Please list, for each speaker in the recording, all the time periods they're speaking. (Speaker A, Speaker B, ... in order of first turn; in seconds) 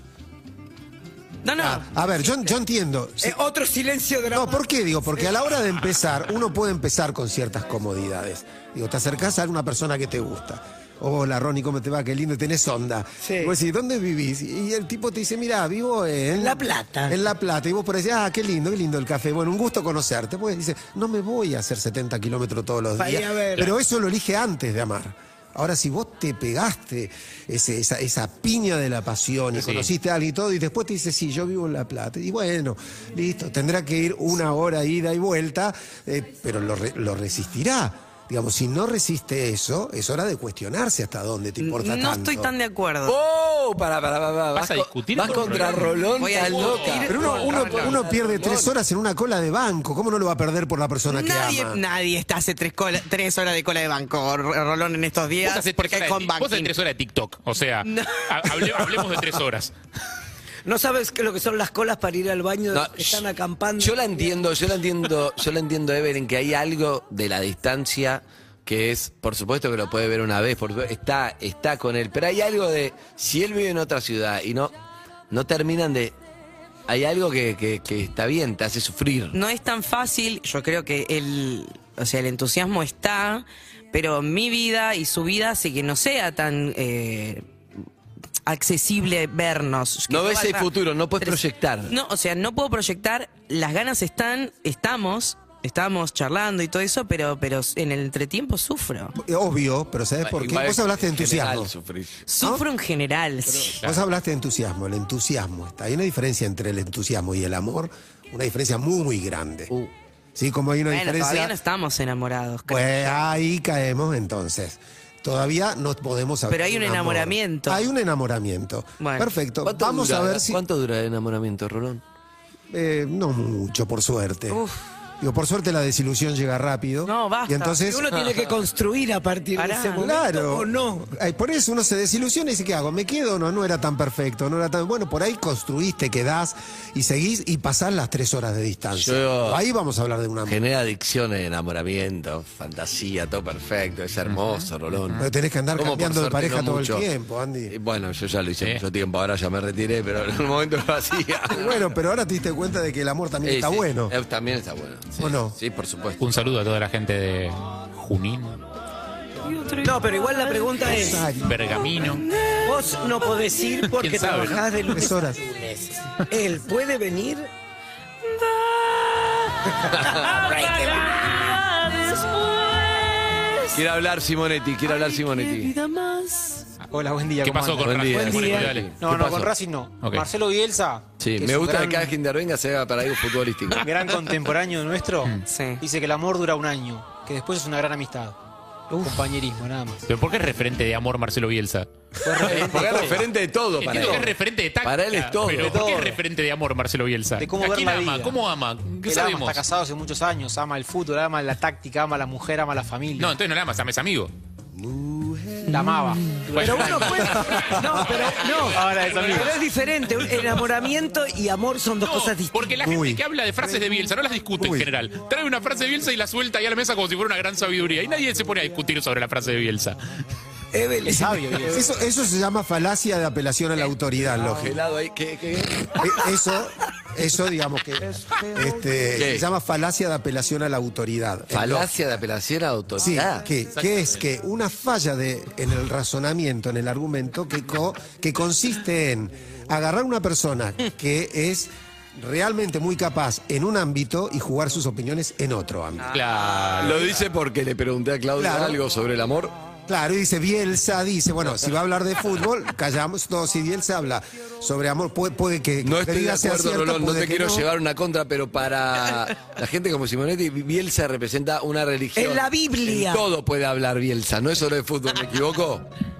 Speaker A: 1.4-2.0, 41.6-43.1, 46.2-48.4, 51.1-56.7, 57.8-59.0, 79.3-87.4, 88.5-99.1, 102.3-103.8, 110.9-113.2, 116.5-117.8, 119.0-119.3, 124.5-124.9, 127.0-127.8, 129.5-130.1, 159.4-161.1, 161.6-163.8, 168.2-173.8, 174.9-176.7, 185.4-185.8
Speaker B: 1.6-3.4, 4.3-42.5, 47.1-51.8, 99.2-101.7, 103.7-109.7, 110.3-111.5, 112.7-120.6, 122.7-124.6, 125.2-128.1, 129.9-140.6, 145.2-147.7, 151.5-154.1, 155.2-155.6, 160.8-161.6, 164.9-165.4, 204.8-205.6, 207.3-207.9, 212.8-213.2, 214.6-214.9, 221.5-224.8, 225.9-231.9, 233.0-246.2, 248.3-248.8, 249.9-257.7
Speaker C: 3.2-5.3, 13.2-13.5, 16.3-17.2, 23.0-23.7, 60.6-64.4, 127.8-131.1, 159.8-161.3, 162.6-167.5, 169.7-171.4, 178.3-178.5, 206.6-212.6, 220.7-222.0, 262.1-263.2
Speaker D: 29.6-29.9, 44.5-47.9, 55.4-59.7, 144.2-145.3, 156.2-158.6, 161.4-162.2, 164.0-164.7, 177.4-179.0, 180.0-180.3, 190.1-193.1, 193.8-199.6, 203.2-204.3, 206.3-209.5, 212.0-220.0, 233.8-234.1, 246.1-247.1
Speaker E: 43.0-48.7, 62.7-63.2, 63.8-74.7, 75.3-76.1, 76.9-79.3, 90.1-91.9, 100.2-102.2, 119.6-122.0, 138.9-139.6, 140.4-145.2, 145.8-147.1, 147.7-151.9, 153.4-156.2, 169.9-170.3, 173.7-175.7, 177.8-179.5, 181.2-183.9, 192.4-195.9, 224.3-226.2, 229.2-229.5, 231.5-233.5, 246.8-249.5, 255.8-265.9
Speaker F: 176.9-182.1, 183.8-188.4, 189.0-190.1, 192.2-193.2, 193.9-194.3, 195.5-196.2, 197.4-198.4, 199.0-203.4, 205.7-207.4, 208.7-209.5